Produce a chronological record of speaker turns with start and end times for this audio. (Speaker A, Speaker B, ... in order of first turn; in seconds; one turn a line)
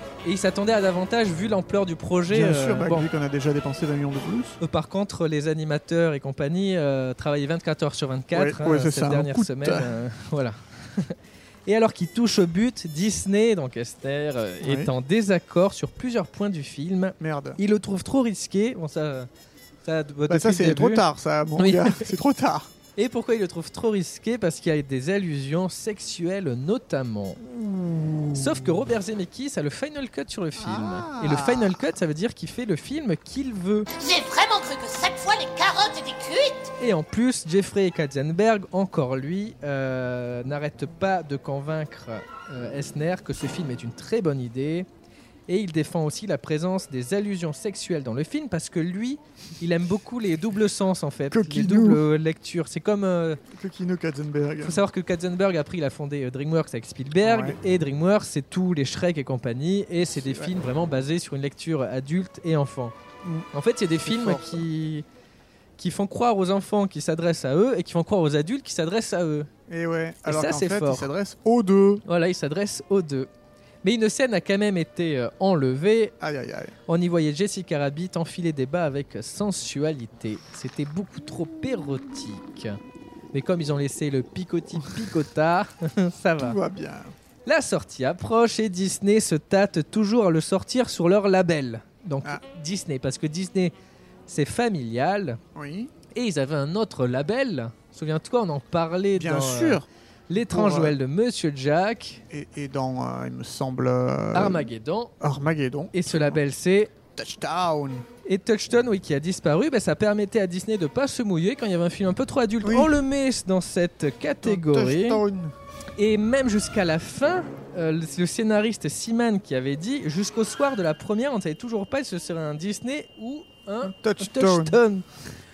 Speaker A: 0.2-3.1
Speaker B: 2.3-4.6
Speaker A: 4.6-19.3
Speaker B: 8.3-9.9
Speaker B: 14.6-14.9
Speaker B: 17.2-17.6
Speaker A: 19.9-21.1
Speaker B: 20.3-22.7
Speaker A: 21.6-22.1
Speaker A: 23.0-27.4
Speaker B: 27.4-28.7
Speaker A: 28.3-33.9
Speaker B: 30.6-31.8
Speaker C: 34.0-36.7
Speaker A: 36.8-44.9
Speaker A: 45.5-53.4
Speaker B: 51.3-52.0
Speaker B: 53.5-54.8
Speaker A: 54.6-62.9
Speaker B: 57.2-57.6
Speaker B: 60.0-60.5
Speaker B: 63.2-63.5
Speaker A: 63.5-65.0
Speaker B: 64.0-64.6
Speaker A: 65.8-69.5
Speaker B: 69.7-72.0
Speaker A: 70.2-71.1
Speaker A: 72.1-73.3
Speaker A: 73.8-76.1
Speaker B: 76.2-76.8
Speaker A: 76.9-82.8
Speaker A: 83.3-86.6
Speaker B: 86.4-87.1
Speaker A: 87.5-93.7
Speaker A: 94.3-95.4
Speaker B: 95.5-95.9
Speaker A: 96.1-102.2
Speaker B: 99.2-101.0
Speaker B: 102.3-104.7
Speaker A: 104.3-105.1
Speaker B: 105.2-106.4
Speaker A: 105.9-106.9
Speaker B: 107.2-108.1
Speaker A: 108.2-115.2
Speaker B: 112.6-112.9
Speaker B: 114.4-115.5
Speaker A: 116.0-125.1
Speaker B: 123.8-124.8